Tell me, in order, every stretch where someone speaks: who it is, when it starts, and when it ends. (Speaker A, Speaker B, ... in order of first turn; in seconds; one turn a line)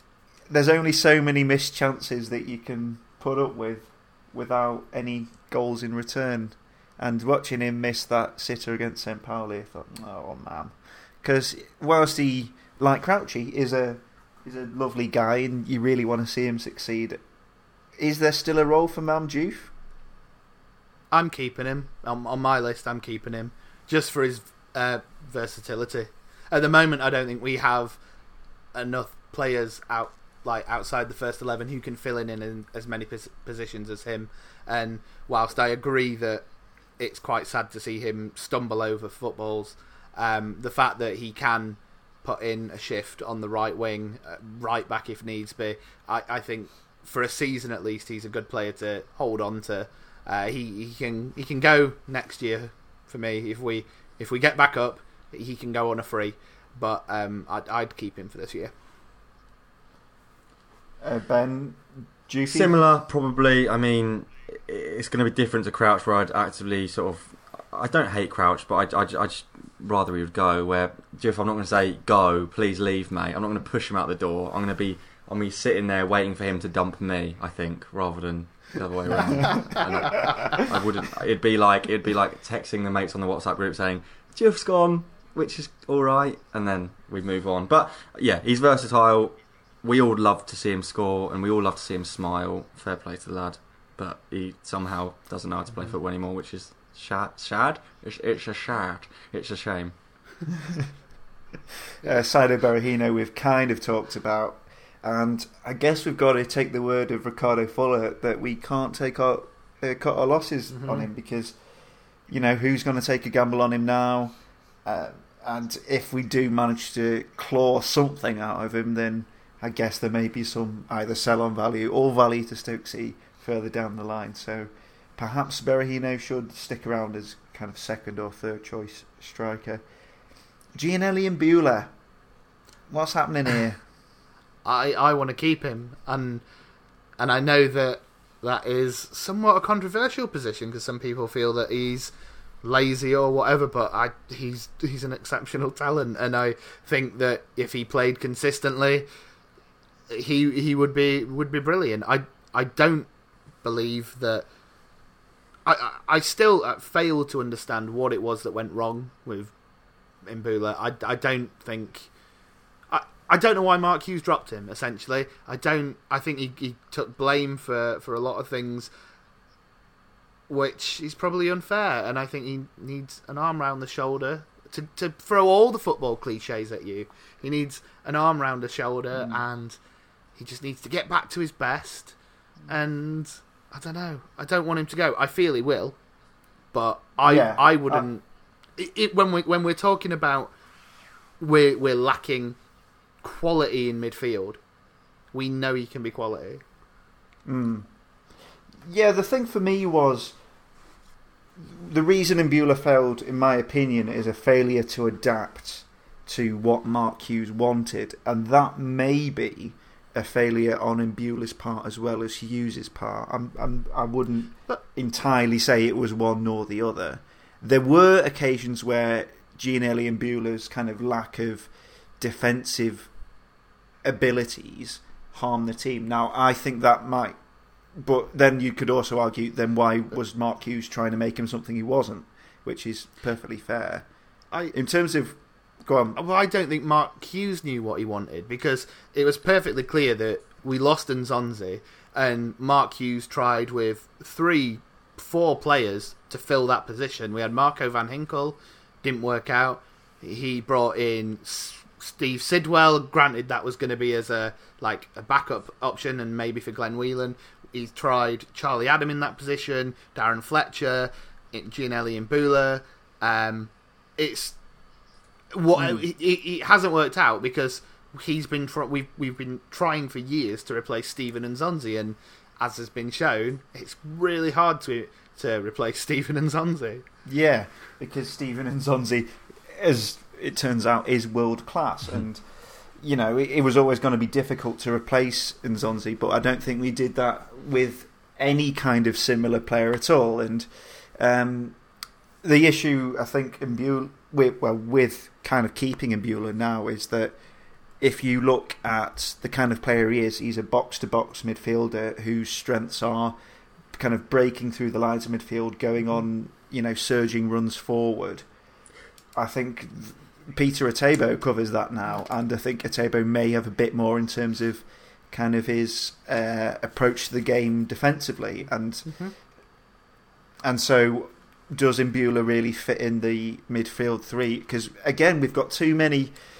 Speaker A: 0.5-17.2
Speaker A: 18.0-19.7
Speaker B: 21.1-28.0
Speaker B: 28.7-36.5
Speaker B: 37.0-58.7
Speaker A: 61.0-62.7
Speaker C: 62.5-99.9
Speaker A: 102.0-111.5
Speaker B: 110.7-111.1
Speaker A: 112.3-129.8
Speaker A: 130.8-131.9
Speaker A: 132.9-133.8
Speaker B: 134.6-136.4
Speaker B: 137.2-149.1
Speaker B: 150.1-153.1
Speaker B: 153.6-154.4
Speaker B: 155.6-159.5
Speaker B: 160.2-162.1
Speaker B: 162.9-168.9
Speaker B: 170.5-179.8
Speaker A: 179.1-179.4
Speaker B: 180.3-182.2
Speaker B: 182.7-186.0
Speaker B: 186.7-188.2
Speaker A: 187.2-188.1
Speaker B: 188.8-190.5
Speaker B: 191.4-192.5
Speaker B: 193.2-194.6
Speaker B: 195.3-196.6
Speaker A: 197.4-197.9
Speaker A: 198.8-200.4
Speaker A: 201.6-223.1
Speaker A: 224.0-227.3
Speaker A: 227.9-234.1
Speaker A: 234.7-236.2
Speaker B: 236.2-264.6
Speaker B: 265.5-277.0
Speaker A: 265.8-266.0
Speaker A: 277.2-282.4
Speaker A: 283.0-290.7
Speaker A: 291.2-291.8
Speaker A: 292.4-297.3
Speaker A: 298.0-303.3
Speaker A: 303.9-308.4
Speaker A: 309.4-319.2
Speaker B: 319.1-319.3
Speaker A: 320.6-326.4